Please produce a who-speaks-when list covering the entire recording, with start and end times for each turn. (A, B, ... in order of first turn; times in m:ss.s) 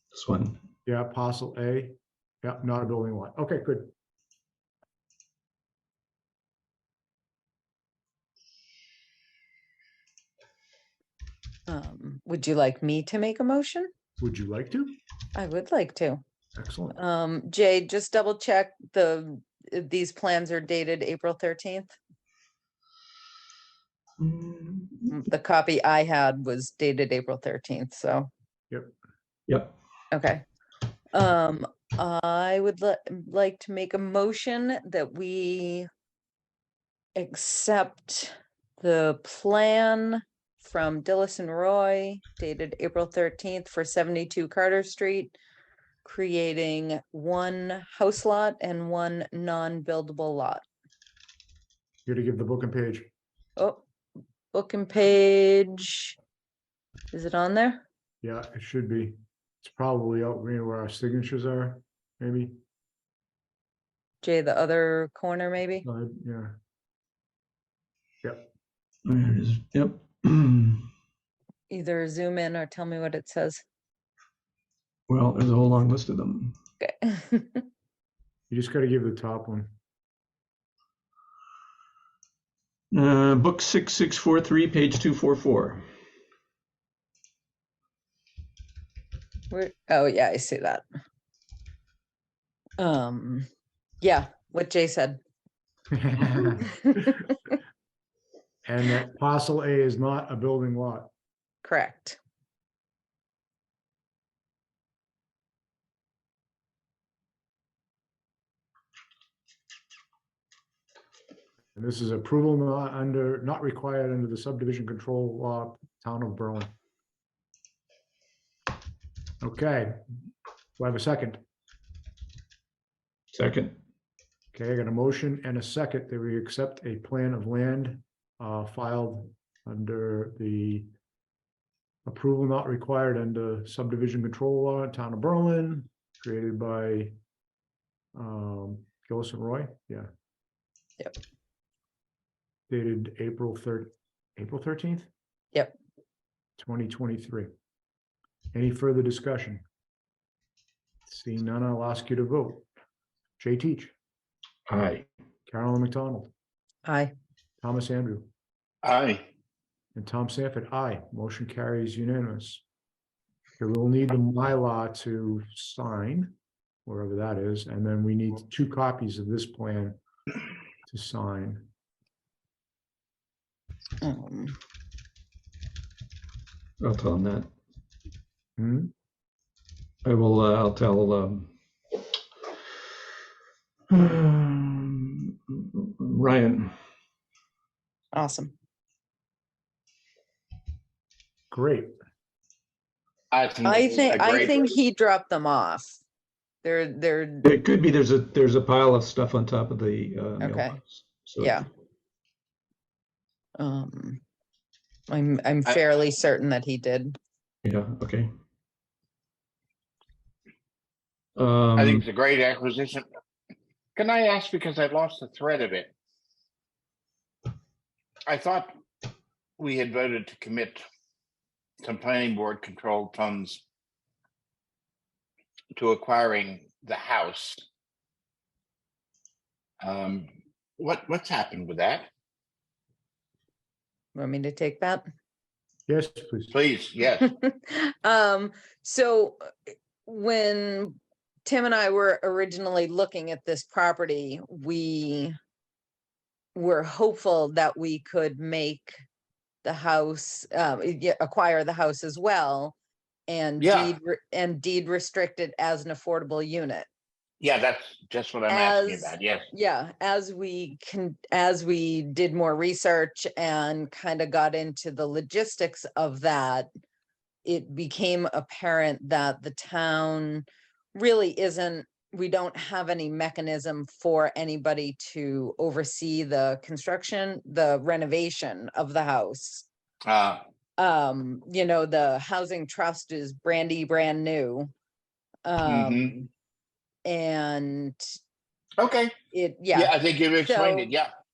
0:00.1-0:00.6 A
0:00.9-0:03.9 B
0:11.7-0:13.9 C
0:14.2-0:15.0 B
0:15.4-0:16.2 C
0:16.6-0:17.0 B
0:17.0-0:22.0 C
0:24.2-0:25.2 A
0:25.1-0:28.3 C
0:29.5-0:29.7 A
0:30.1-0:30.4 C
0:31.1-0:35.9 C
0:37.2-0:45.4 C
0:46.0-0:50.6 C
0:52.1-0:53.1 B
0:53.6-0:53.8 C
0:54.5-0:56.2 C
0:57.1-0:57.8 C
0:58.2-1:02.6 B
1:04.2-1:05.8 C
1:05.8-1:06.6 B
1:08.2-1:08.5 B
1:09.1-1:10.9 A
1:11.7-1:13.6 C
1:15.1-1:16.6 A
1:16.8-1:17.6 C
1:18.5-1:19.7 B
1:22.9-1:25.9 A
1:29.5-1:30.8 C
1:32.8-1:33.5 C
1:34.0-1:35.2 C
1:35.9-1:36.8 B
1:36.6-1:37.2 C
1:38.6-1:41.1 B
1:41.6-1:42.2 C
1:51.8-1:56.7 B
1:59.4-2:00.0 B
2:00.8-2:01.4 B
2:03.3-2:03.8 A
2:04.5-2:10.9 B
2:12.0-2:17.2 B
2:18.2-2:20.1 B
2:22.7-2:25.1 B
2:26.6-2:27.5 B
2:28.5-2:29.6 B
2:31.1-2:32.7 B
2:33.4-2:33.9 B
2:34.7-2:35.1 A
2:35.5-2:36.3 B
2:36.8-2:37.1 C
2:37.6-2:38.3 B
2:38.8-2:39.3 D
2:40.0-2:42.6 B
2:43.6-2:46.4 B
2:46.9-2:50.0 B
2:50.9-2:51.7 B
2:54.0-2:54.6 C
2:56.8-2:57.5 A
2:58.6-2:58.9 B
3:00.0-3:01.5 A
3:03.9-3:06.8 A
3:08.1-3:08.5 C
3:11.5-3:12.0 B
3:13.3-3:14.8 D
3:13.6-3:16.0 C
3:16.6-3:17.5 C
3:17.4-3:21.6 A
3:20.4-3:20.8 C
3:21.4-3:21.7 C
3:23.6-3:24.2 C
3:25.1-3:27.2 C
3:27.6-3:28.3 A
3:31.4-3:32.0 A
3:31.8-3:33.1 D
3:34.0-3:35.9 D
3:38.3-3:38.8 D
3:39.6-3:40.8 D
3:41.8-3:43.6 D
3:45.8-3:47.6 D
3:49.8-3:52.1 D
3:54.2-3:55.0 C
3:55.9-3:56.5 B
3:56.5-3:57.3 D
3:57.2-4:05.3 C
4:06.6-4:08.9 C
4:09.6-4:12.8 C
4:13.3-4:16.9 C
4:13.6-4:13.9 D
4:17.4-4:19.5 D
4:18.5-4:26.7 C
4:27.4-4:39.7 C
4:40.1-4:40.4 D
4:40.8-4:44.7 C
4:45.4-4:46.3 C
4:45.6-4:46.2 D
4:47.0-4:48.2 C
4:48.8-4:49.1 D
4:49.3-4:50.9 C
4:49.7-4:51.1 D